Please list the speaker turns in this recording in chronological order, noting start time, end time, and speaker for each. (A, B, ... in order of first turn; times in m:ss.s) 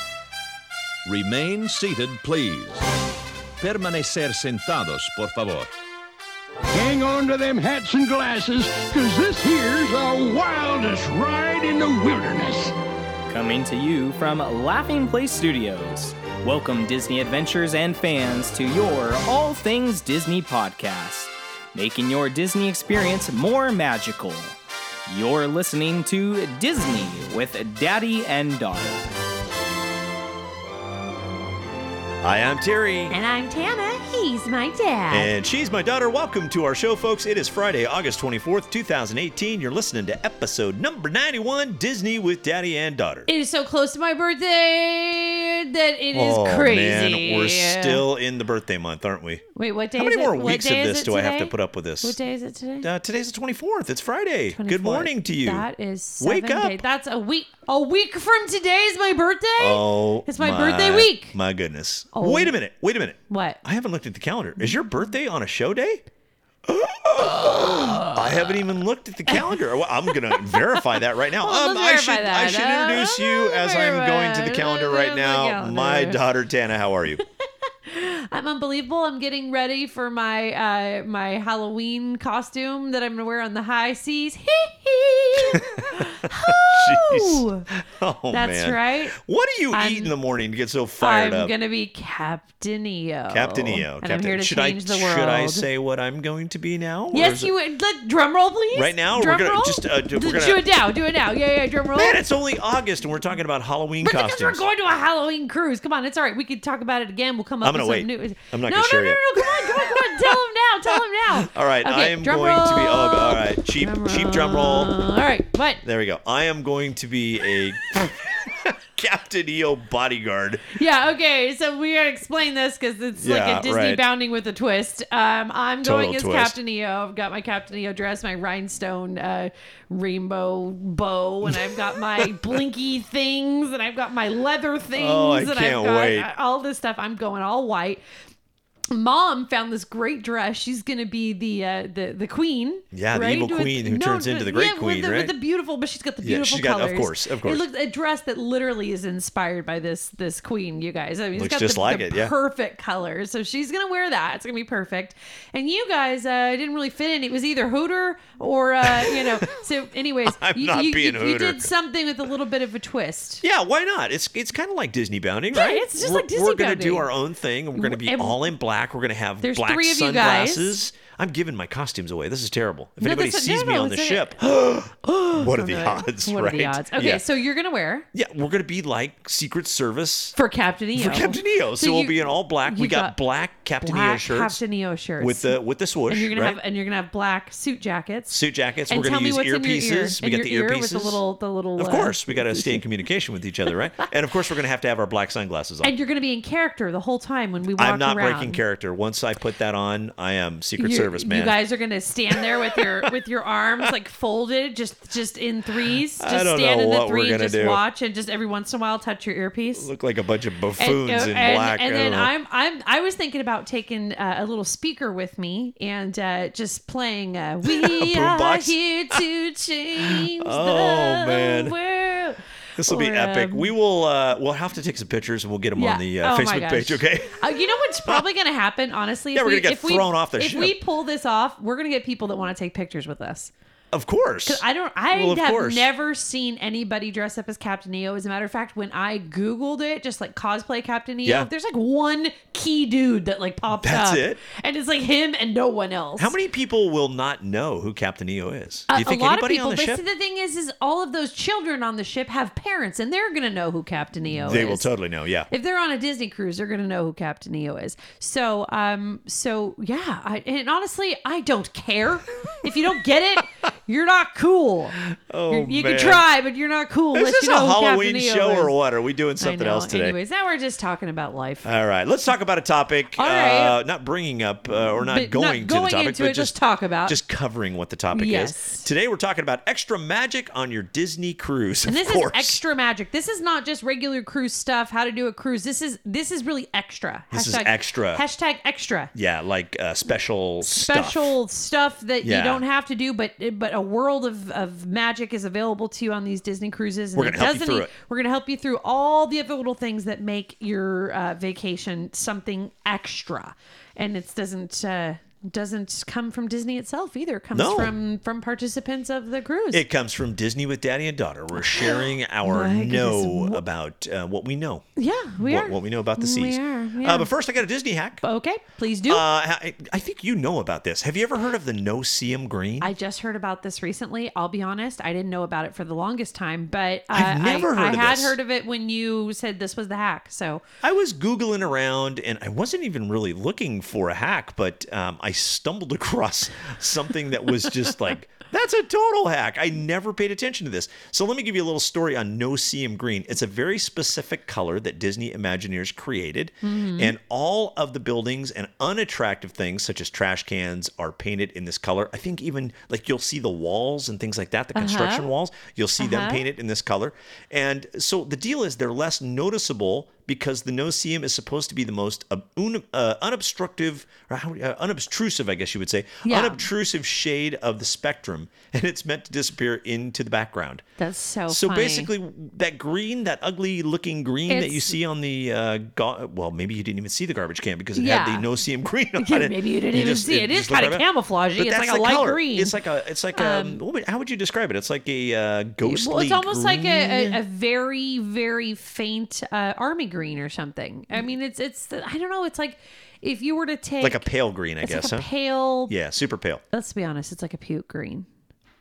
0:01.1-0:02.8 A
0:03.6-0:05.7 A
0:06.7-0:12.7 B
0:13.3-0:24.6 C
0:25.1-0:29.1 C
0:32.2-0:33.2 D
0:33.1-0:35.3 E
0:35.1-0:43.3 D
0:43.3-0:48.0 E
0:46.1-0:49.4 D
0:49.6-0:52.9 E
0:50.0-0:52.2 D
0:52.8-0:55.7 D
0:54.5-1:01.4 E
0:56.2-0:56.8 D
0:59.6-1:06.0 D
1:02.1-1:02.6 E
1:03.3-1:03.6 E
1:06.7-1:17.2 D
1:07.3-1:08.2 E
1:09.3-1:09.6 E
1:10.1-1:16.2 E
1:17.8-1:27.7 E
1:25.5-1:31.5 D
1:28.3-1:29.2 E
1:29.7-1:30.1 E
1:31.0-1:35.7 E
1:33.3-1:37.5 D
1:37.1-1:42.2 E
1:38.7-1:40.7 D
1:41.9-1:44.7 D
1:44.0-1:55.8 E
1:47.6-1:55.0 D
1:55.8-2:00.8 D
2:00.7-2:18.0 E
2:03.2-2:04.0 D
2:05.8-2:06.6 D
2:11.4-2:12.6 D
2:14.9-2:16.3 D
2:18.9-2:43.4 E
2:22.9-2:25.3 D
2:26.2-2:27.6 D
2:31.3-2:32.3 D
2:38.8-2:39.5 D
2:40.2-2:41.7 D
2:43.4-2:57.2 D
2:45.5-2:47.1 E
2:47.8-2:48.4 E
2:49.4-2:50.8 E
2:53.0-2:54.4 E
2:55.0-2:58.1 E
2:58.1-3:00.3 D
3:00.3-3:03.2 E
3:00.9-3:04.6 D
3:03.8-3:05.6 E
3:05.2-3:06.6 D
3:06.1-3:08.4 E
3:08.3-3:11.2 D
3:08.9-3:12.8 E
3:11.8-3:15.9 D
3:15.8-3:18.6 E
3:17.8-3:21.6 D
3:20.8-3:29.9 E
3:22.3-3:23.1 D
3:26.2-3:27.8 D
3:29.8-3:32.3 D
3:30.8-3:43.7 E
3:37.6-3:39.2 D
3:40.0-3:41.8 D
3:42.8-3:48.3 D
3:45.8-3:53.5 E
3:49.3-3:50.8 D
3:53.9-3:55.9 D
3:54.4-4:06.4 E
4:03.8-4:04.4 D
4:06.2-4:10.0 D
4:08.9-4:14.9 E
4:14.3-4:15.5 D
4:15.5-4:28.7 E
4:25.0-4:26.2 D
4:27.1-4:30.2 D
4:29.4-4:31.7 E
4:31.6-4:42.6 D
4:33.2-4:33.8 E
4:35.1-4:37.2 E
4:38.1-4:38.9 E
4:41.9-4:49.1 E
4:47.3-4:48.2 D
4:49.1-4:51.3 D
4:50.6-5:09.8 E
4:52.2-4:52.6 D
4:57.2-4:57.9 D
5:07.5-5:07.9 D
5:09.7-5:18.2 D
5:11.6-5:13.6 E
5:15.0-5:17.3 E
5:18.2-5:19.2 E
5:19.1-5:22.9 D
5:22.8-5:30.6 E
5:27.1-5:28.4 D
5:30.8-6:10.8 D
5:46.6-5:47.1 E
5:54.8-5:55.3 E
5:56.0-5:56.4 E
6:06.2-6:06.7 E
6:11.0-6:12.1 E
6:11.5-6:27.4 D
6:14.5-6:15.0 E
6:17.9-6:18.5 E
6:19.2-6:22.7 E
6:23.4-6:23.8 E
6:25.8-6:34.3 E
6:34.0-6:35.3 D
6:34.8-6:35.9 E
6:35.9-6:36.6 D
6:36.7-6:38.3 E